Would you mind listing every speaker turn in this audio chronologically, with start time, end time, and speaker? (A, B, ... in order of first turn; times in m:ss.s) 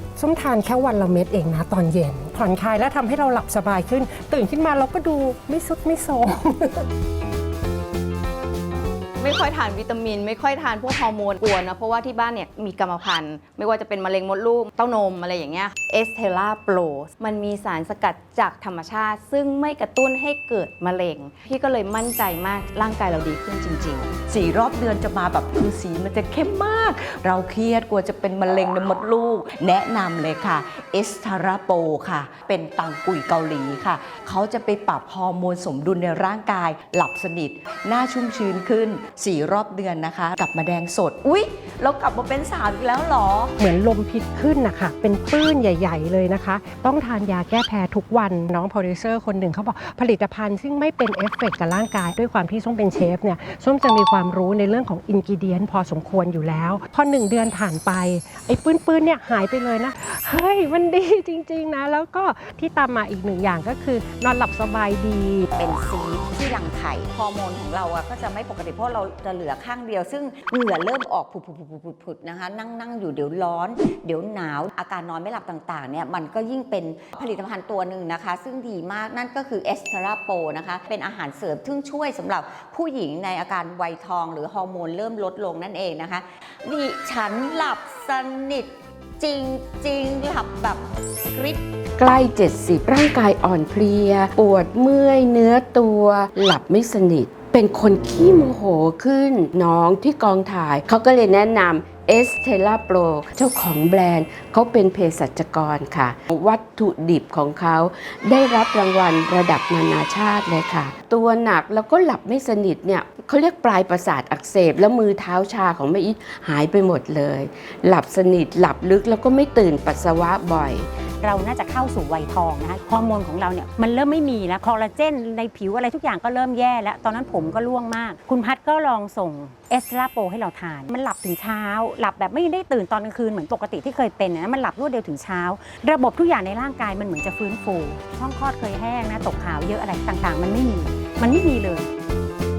0:00.2-0:06.8 A
0:09.2-0:24.1 B
0:24.3-0:43.5 C
0:43.6-1:05.5 A
1:05.5-1:31.6 D
1:32.0-2:00.9 E
2:01.2-2:21.9 F